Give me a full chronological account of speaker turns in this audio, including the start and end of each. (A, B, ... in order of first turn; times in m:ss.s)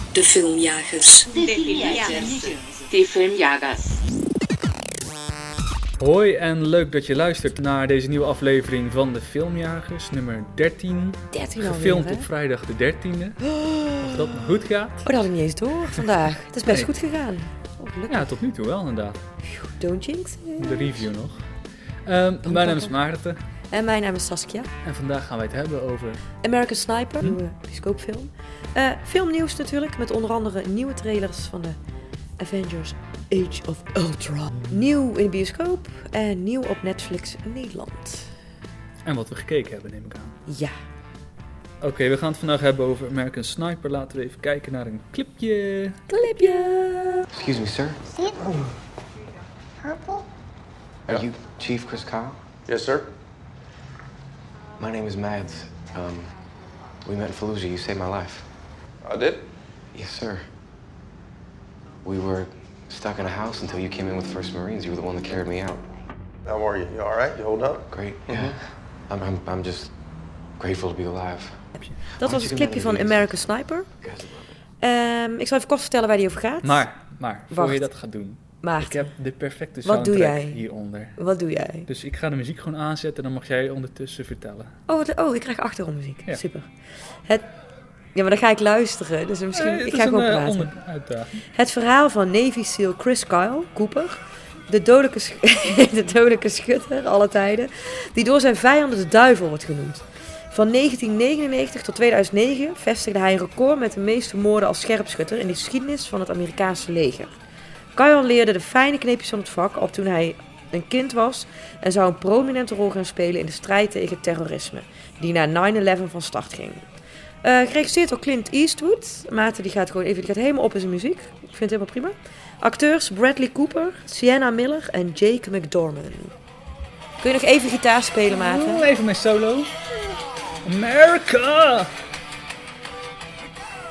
0:00.2-0:01.9 A
0:01.3-0:04.0 B
0:06.0-0:15.2 C
0:11.3-0:12.3 A
0:13.4-0:14.2 A
0:15.0-0:18.3 A
0:18.1-0:19.2 C
0:19.4-0:21.1 A
0:20.6-0:21.5 C
0:22.0-0:23.4 C
0:22.4-0:23.0 A
0:23.7-0:24.7 A
0:24.8-0:26.2 C
0:26.4-0:31.8 A
0:32.4-0:38.3 A
0:34.5-0:34.8 C
0:39.0-0:40.4 C
0:40.5-0:40.7 A
0:41.8-0:46.0 C
0:46.1-0:47.3 A
0:47.3-0:48.5 D
0:51.1-0:52.4 D
0:52.7-0:53.1 E
0:54.8-0:56.3 D
0:57.0-0:58.5 D
0:59.0-0:59.4 E
0:59.9-1:00.4 D
1:02.0-1:05.8 D
1:06.5-1:07.8 E
1:07.9-1:09.9 D
1:10.6-1:11.6 D
1:12.1-1:13.9 A
1:12.2-1:13.4 D
1:14.0-1:14.5 D
1:14.8-1:16.8 A
1:16.6-1:21.2 C
1:17.5-1:17.8 A
1:18.6-1:19.1 A
1:19.8-1:20.6 A
1:21.2-1:21.9 A
1:21.9-1:24.8 C
1:24.9-1:26.7 A
1:27.2-1:27.5 A
1:28.1-1:30.7 A
1:29.5-1:31.4 C
1:31.5-1:47.3 A
1:48.0-1:56.8 A
1:57.4-2:06.3 A
2:07.2-2:08.8 A
2:08.3-2:10.1 C
2:10.6-2:11.9 C